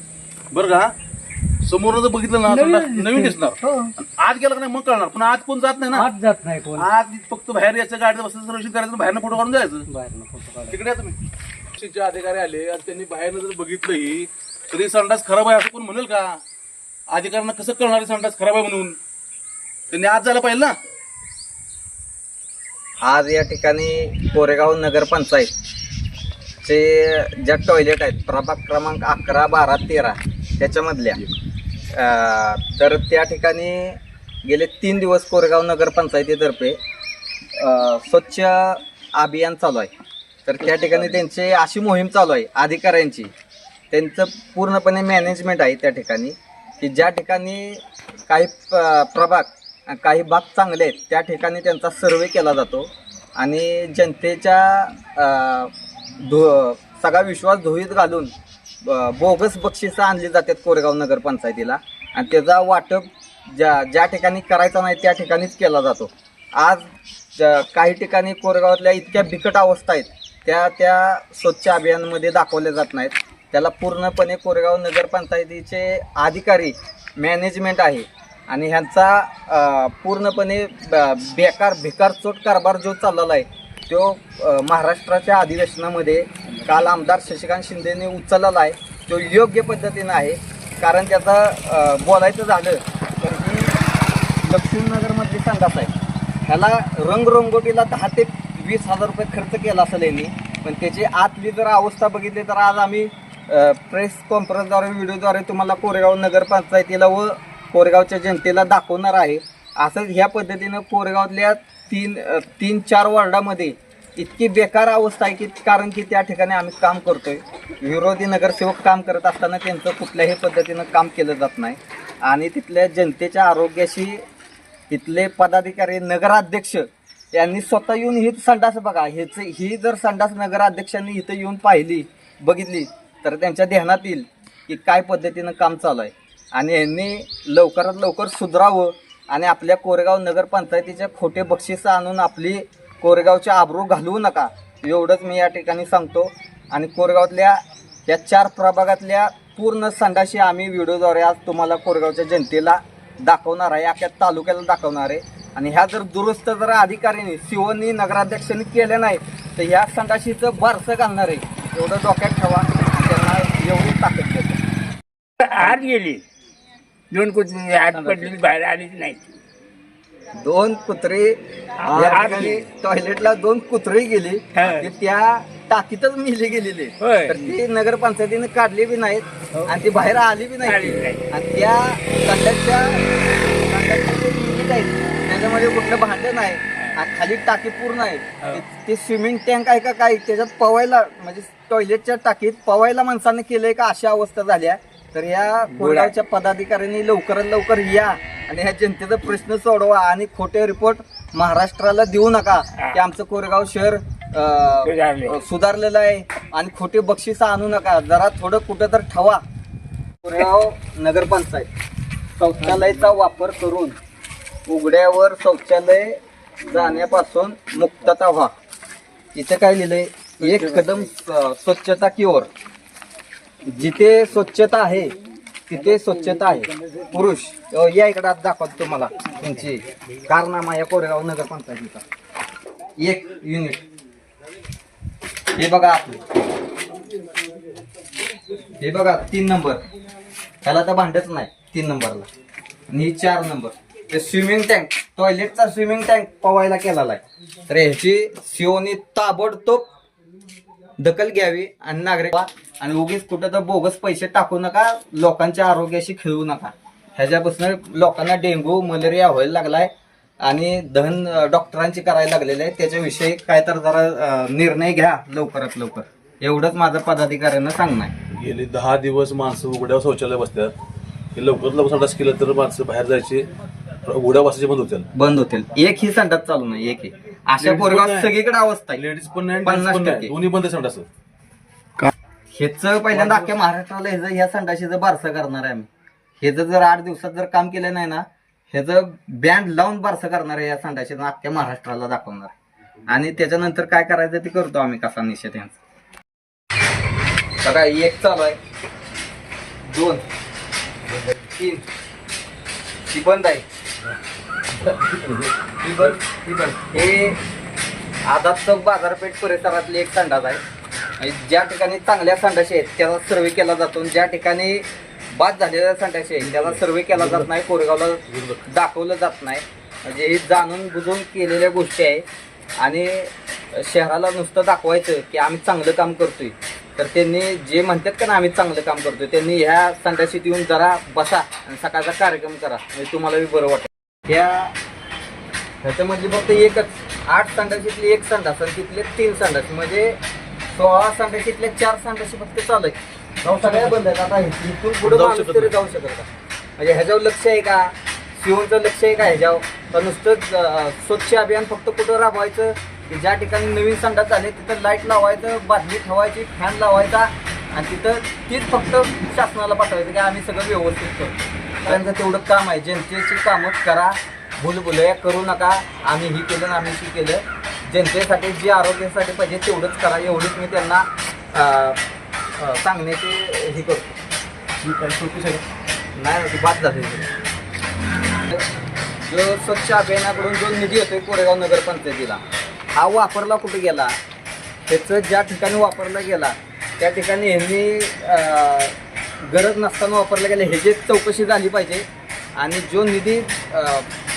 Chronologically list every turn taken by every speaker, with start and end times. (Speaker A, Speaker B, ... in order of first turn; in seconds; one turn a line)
Speaker A: 0.5-0.9
Speaker A: 1.6-6.1
Speaker B: 2.5-3.4
Speaker B: 5.9-6.8
Speaker A: 6.7-9.9
Speaker B: 9.9-10.8
Speaker A: 10.7-11.2
Speaker A: 11.7-16.4
Speaker A: 17.1-19.0
Speaker A: 19.9-20.8
Speaker C: 23.0-25.5
Speaker C: 26.6-31.2
Speaker C: 31.9-36.8
Speaker C: 37.5-39.9
Speaker C: 40.5-43.3
Speaker A: 40.8-41.1
Speaker C: 43.9-58.3
Speaker C: 58.8-93.8
Speaker C: 94.4-95.9
Speaker C: 96.5-124.2
Speaker C: 124.9-164.6
Speaker D: 165.4-166.2
Speaker D: 167.1-169.3
Speaker C: 167.9-168.3
Speaker C: 170.3-209.4
Speaker D: 171.8-172.5
Speaker C: 210.2-211.7
Speaker C: 212.3-213.9
Speaker C: 214.7-218.5
Speaker C: 219.3-222.5
Speaker C: 223.6-225.1
Speaker C: 225.7-232.0
Speaker C: 233.0-233.8
Speaker C: 235.6-236.2
Speaker C: 238.8-239.8
Speaker C: 240.6-242.3
Speaker C: 242.9-249.8
Speaker C: 251.0-259.9
Speaker C: 260.4-268.1
Speaker A: 268.3-270.7
Speaker A: 271.3-273.5
Speaker A: 274.1-275.1
Speaker C: 275.1-279.0
Speaker A: 277.6-278.3
Speaker A: 278.9-281.1
Speaker C: 279.6-280.3
Speaker C: 282.5-285.9
Speaker A: 283.1-283.5
Speaker C: 286.4-292.5
Speaker C: 293.1-295.8
Speaker C: 297.6-298.6
Speaker C: 299.9-300.2
Speaker C: 301.5-301.8
Speaker C: 303.1-303.6
Speaker A: 304.8-305.5
Speaker C: 305.8-307.4
Speaker C: 308.3-310.6
Speaker C: 311.2-322.2
Speaker A: 316.4-317.5
Speaker A: 318.3-318.6
Speaker C: 322.8-334.7
Speaker C: 335.8-340.2
Speaker C: 340.7-343.0
Speaker A: 343.4-344.1
Speaker C: 343.5-346.3
Speaker A: 345.0-345.7
Speaker C: 346.8-372.0
Speaker C: 372.6-374.1
Speaker A: 374.8-375.6
Speaker C: 376.1-377.3
Speaker C: 379.3-382.4
Speaker C: 382.9-384.1
Speaker C: 384.9-394.1